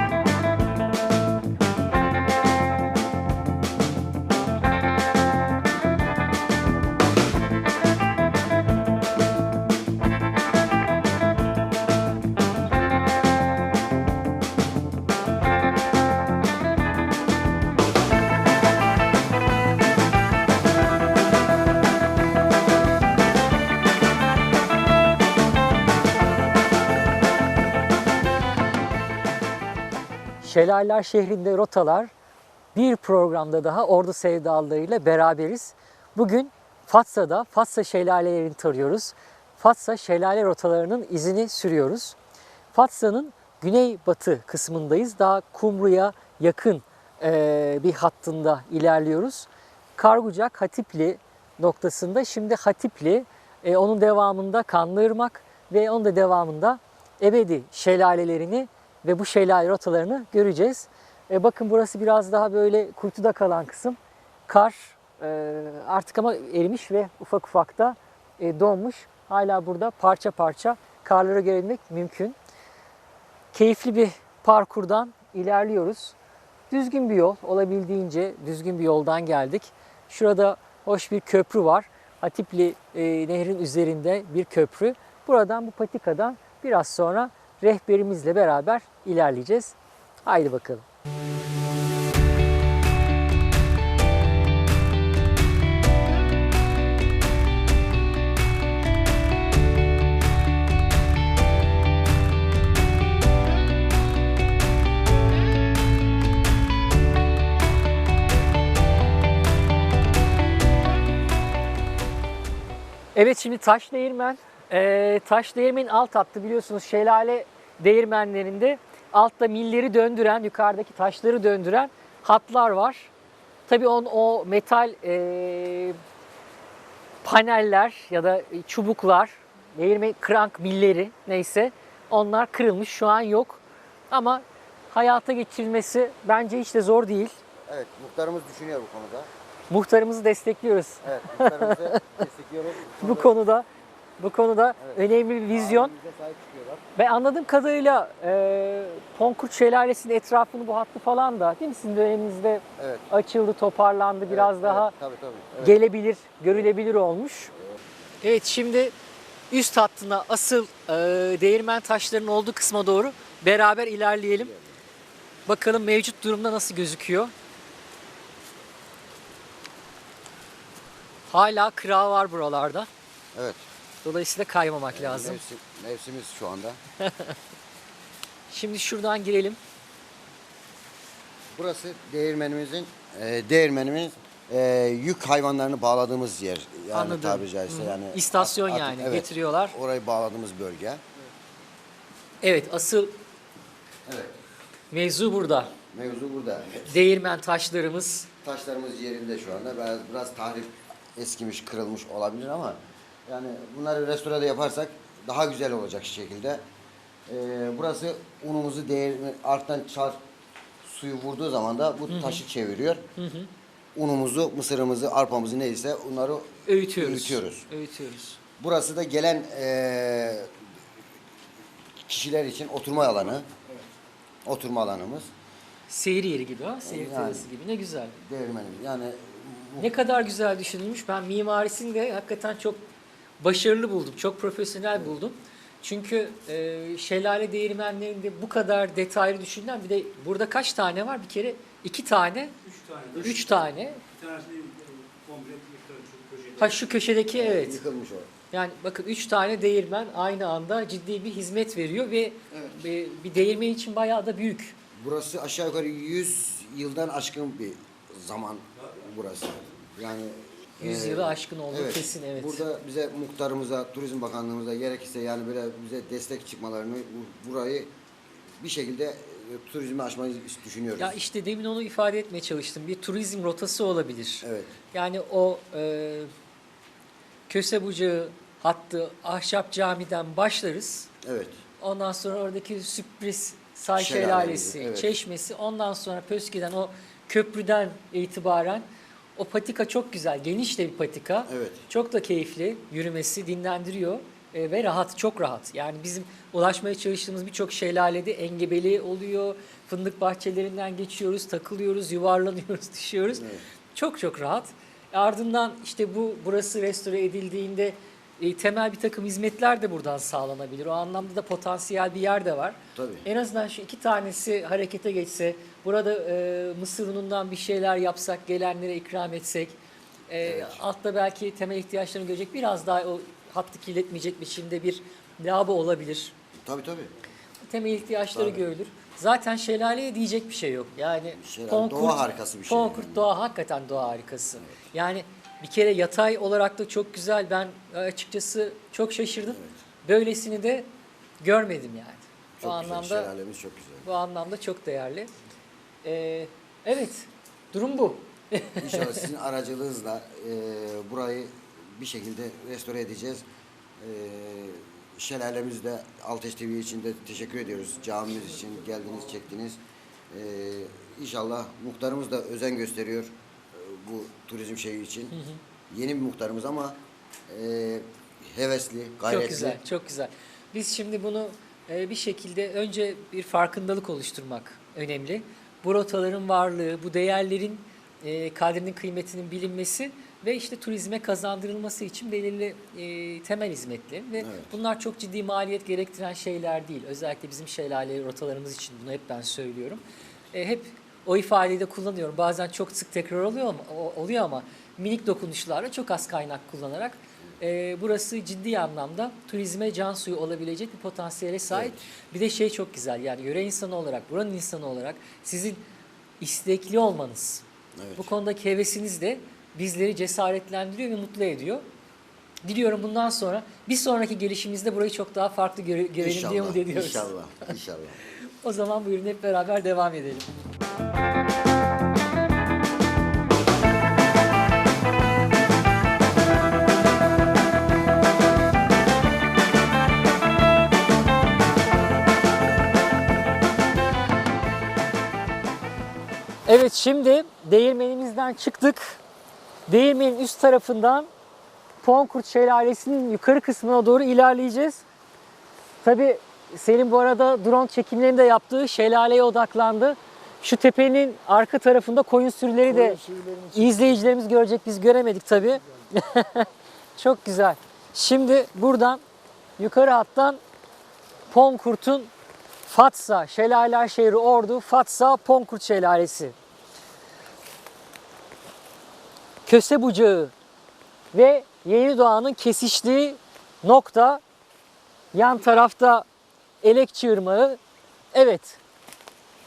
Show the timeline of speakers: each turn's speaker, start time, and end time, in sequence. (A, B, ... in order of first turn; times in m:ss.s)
0:30.4-0:32.1 A
0:32.7-0:42.2 A
0:42.7-1:12.4 A
1:13.5-1:16.1 A
1:16.7-1:30.8 A
1:53.1-2:03.1 A
2:03.7-2:06.0 A
2:07.2-2:17.4 A
2:17.7-2:19.3 B
2:19.7-2:22.2 A
2:21.0-2:23.4 B
2:23.0-2:23.6 A
2:24.2-2:25.9 A
2:24.8-2:26.8 B
2:27.0-2:34.9 A
2:32.8-2:33.1 B
2:34.2-2:35.8 B
2:35.6-2:37.5 A
2:38.2-2:38.9 A
2:39.5-2:44.5 A
2:44.4-2:44.7 B
2:45.5-2:47.3 A
2:51.3-2:52.9 A
2:53.3-2:53.6 B
2:54.0-2:55.4 A
2:54.9-2:56.8 B
2:57.0-2:57.3 A
2:58.5-2:59.6 A
3:01.5-3:11.0 B
3:06.9-3:09.7 A
3:12.4-3:13.1 A
3:14.0-3:14.4 B
3:14.9-3:15.7 A
3:15.9-3:17.0 B
3:16.9-3:18.3 A
3:18.4-3:26.6 B
3:27.3-3:30.2 B
3:30.8-3:33.0 B
3:32.1-3:32.4 A
3:33.2-3:33.5 A
3:33.9-3:37.6 B
3:36.6-3:38.4 A
3:38.6-3:40.5 B
3:42.0-3:43.5 B
3:44.4-3:45.3 B
3:45.9-3:48.2 A
3:46.8-3:47.5 B
3:48.2-3:49.9 B
3:49.8-3:52.8 A
3:53.4-4:02.6 A
4:03.1-4:03.7 B
4:03.2-4:04.0 A
4:04.2-4:06.6 C
4:06.6-4:07.8 A
4:07.3-4:08.3 B
4:08.5-4:14.8 A
4:15.0-4:27.9 B
4:20.8-4:22.6 A
4:28.6-4:31.2 B
4:31.0-4:36.3 A
4:34.4-4:34.7 B
4:37.5-4:41.1 A
4:41.2-4:41.6 B
4:41.8-5:19.8 A
4:43.9-4:45.2 B
4:51.5-4:51.8 B
5:03.3-5:03.6 B
5:12.9-5:13.2 B
5:20.3-5:26.3 A
5:20.4-5:20.8 B
5:26.6-5:27.1 B
5:27.7-5:40.9 A
5:28.3-5:28.6 B
5:31.4-5:33.3 B
5:39.4-5:39.8 B
5:41.4-5:43.3 A
5:42.6-5:44.0 B
5:44.0-5:45.3 A
5:46.0-5:49.3 A
5:48.8-5:53.4 B
5:54.0-6:05.4 B
6:05.3-6:05.6 A
6:05.9-6:09.8 B
6:09.3-6:45.8 A
6:24.4-6:24.7 B
6:41.7-6:42.0 B
6:46.4-6:47.6 A
6:48.0-6:48.3 B
6:48.2-6:51.9 A
6:52.6-6:57.7 A
6:56.2-6:58.2 B
6:58.6-7:00.5 A
7:16.6-7:19.2 A
7:19.9-7:21.3 A
7:22.0-7:25.0 A
7:26.0-7:33.2 A
7:32.9-7:34.2 C
7:33.7-7:39.2 A
7:39.8-7:40.6 A
7:41.5-7:42.3 A
7:42.8-7:46.5 A
7:49.6-7:50.5 A
7:51.3-7:54.4 A
7:55.3-7:56.2 A
7:56.8-7:57.8 A
7:58.3-7:58.8 A